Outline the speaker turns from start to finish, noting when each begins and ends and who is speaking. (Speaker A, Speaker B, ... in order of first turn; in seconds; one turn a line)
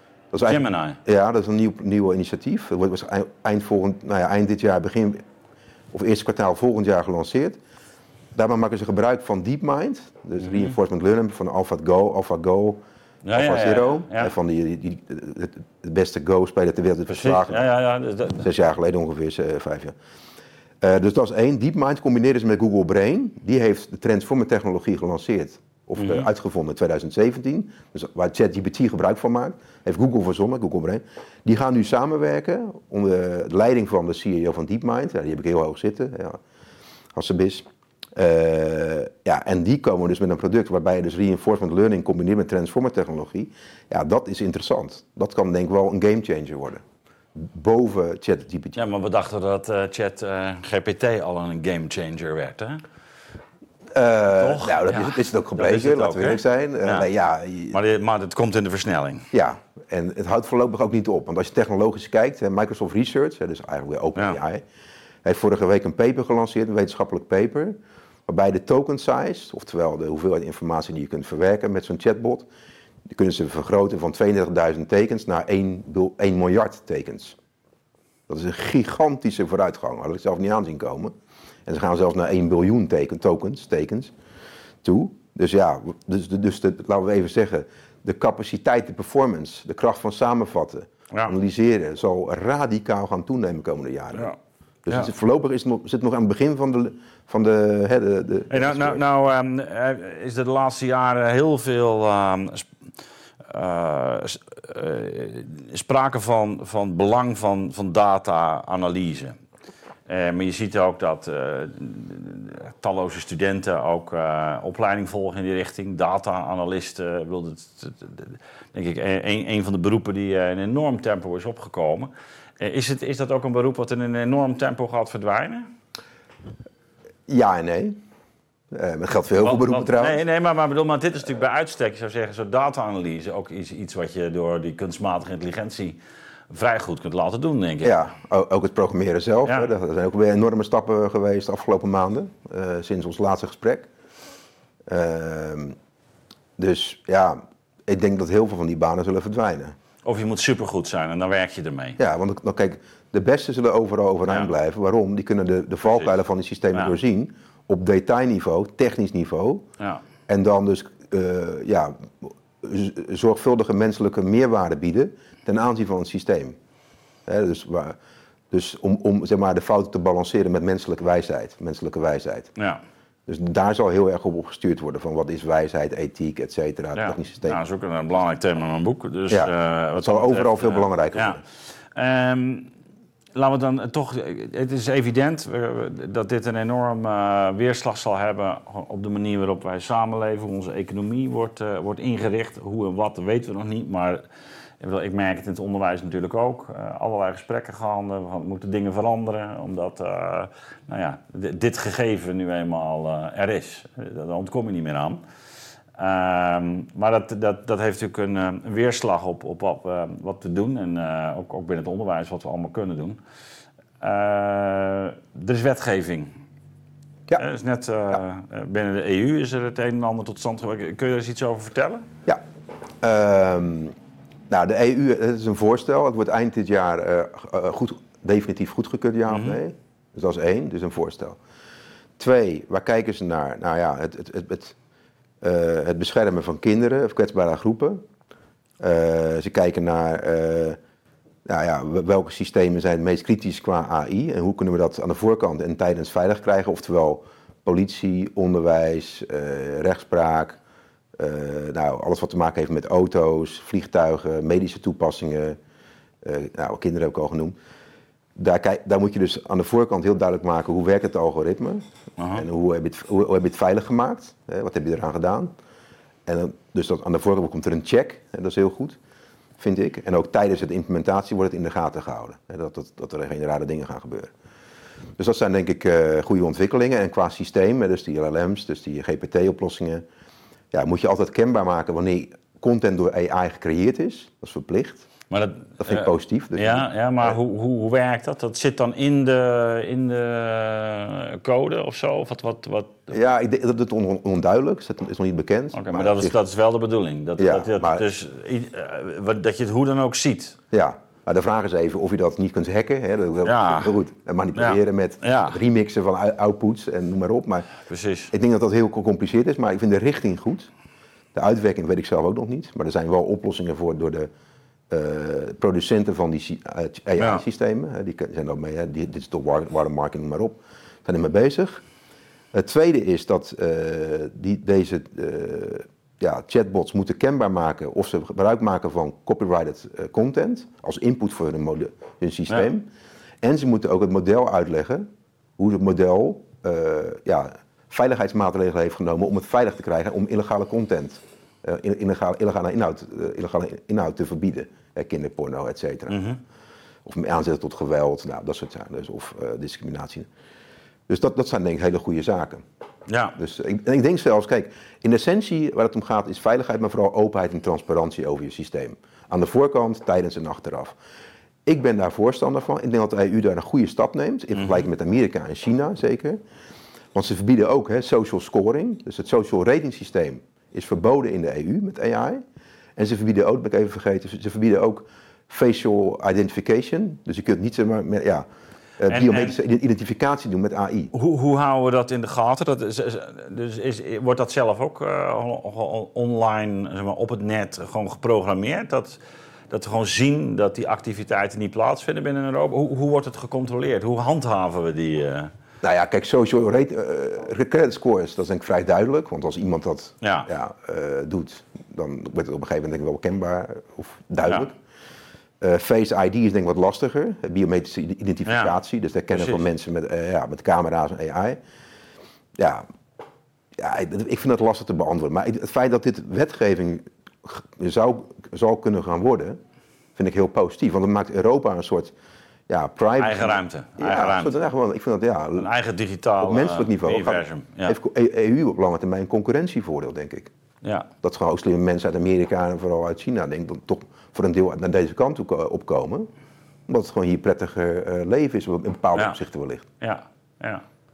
Speaker A: 0.3-5.2
Speaker B: 0.5-1.0
Speaker A: 5.9-7.6
Speaker A: 8.3-17.7
Speaker B: 10.4-10.7
Speaker B: 13.2-14.3
Speaker B: 17.1-18.4
Speaker A: 18.4-19.9
Speaker A: 20.8-36.4
Speaker B: 26.0-26.3
Speaker A: 37.1-46.8
Speaker A: 47.4-48.8
Speaker B: 48.8-52.8
Speaker A: 53.9-57.8
Speaker B: 54.4-57.1
Speaker B: 57.7-59.3
Speaker A: 59.3-64.7
Speaker A: 65.2-72.5
Speaker A: 73.1-77.4
Speaker A: 78.3-81.1
Speaker A: 81.7-84.1
Speaker A: 84.8-94.3
Speaker A: 94.8-99.0
Speaker B: 98.5-102.7
Speaker B: 103.5-109.4
Speaker B: 110.1-125.7
Speaker A: 127.3-128.0
Speaker A: 128.7-130.2
Speaker B: 129.4-136.0
Speaker B: 136.5-138.0
Speaker A: 137.8-143.9
Speaker A: 144.9-145.8
Speaker A: 146.6-149.8
Speaker B: 150.0-152.0
Speaker A: 152.0-159.7
Speaker A: 160.3-166.6
Speaker A: 167.3-168.0
Speaker A: 168.5-172.5
Speaker A: 173.3-177.6
Speaker B: 177.0-181.4
Speaker A: 179.3-181.4
Speaker B: 181.9-182.7
Speaker B: 183.3-194.2
Speaker B: 194.8-205.2
Speaker B: 206.0-213.2
Speaker B: 214.0-216.3
Speaker B: 217.4-222.1
Speaker A: 223.0-224.0
Speaker A: 224.5-231.4
Speaker B: 229.3-229.6
Speaker A: 232.2-234.8
Speaker A: 235.4-238.0
Speaker A: 238.8-240.8
Speaker A: 241.5-250.6
Speaker A: 251.2-255.6
Speaker A: 256.2-257.6
Speaker A: 258.4-265.5
Speaker B: 262.2-262.5
Speaker A: 266.3-269.0
Speaker A: 269.6-274.3
Speaker A: 275.2-280.1
Speaker A: 280.7-285.1
Speaker B: 285.3-293.1
Speaker A: 285.8-287.4
Speaker A: 293.1-296.4
Speaker B: 295.7-300.6
Speaker A: 297.4-298.1
Speaker A: 300.7-307.7
Speaker B: 303.4-303.9
Speaker B: 304.6-305.6
Speaker B: 307.9-308.3
Speaker A: 308.3-310.7
Speaker A: 311.3-314.3
Speaker A: 314.9-321.8
Speaker B: 317.2-317.4
Speaker A: 322.5-332.9
Speaker A: 333.4-335.1
Speaker A: 335.6-346.3
Speaker B: 346.1-346.4
Speaker A: 347.1-350.3
Speaker A: 351.1-352.6
Speaker B: 353.1-353.4
Speaker A: 353.4-361.0
Speaker A: 361.7-366.4
Speaker B: 364.6-364.8
Speaker A: 367.1-372.4
Speaker A: 373.0-378.5
Speaker A: 379.0-381.1
Speaker B: 379.1-379.6
Speaker B: 381.1-389.2
Speaker B: 389.7-395.5
Speaker A: 395.8-404.8
Speaker B: 400.2-400.5
Speaker A: 405.6-411.6
Speaker B: 408.5-408.7
Speaker B: 409.3-409.6
Speaker A: 412.6-412.9
Speaker A: 413.8-419.6
Speaker A: 420.2-422.1
Speaker A: 422.7-425.7
Speaker B: 423.2-424.5
Speaker B: 425.6-428.0
Speaker A: 426.4-430.5
Speaker B: 430.8-431.1
Speaker A: 431.2-436.3
Speaker A: 436.9-439.9
Speaker B: 440.0-440.8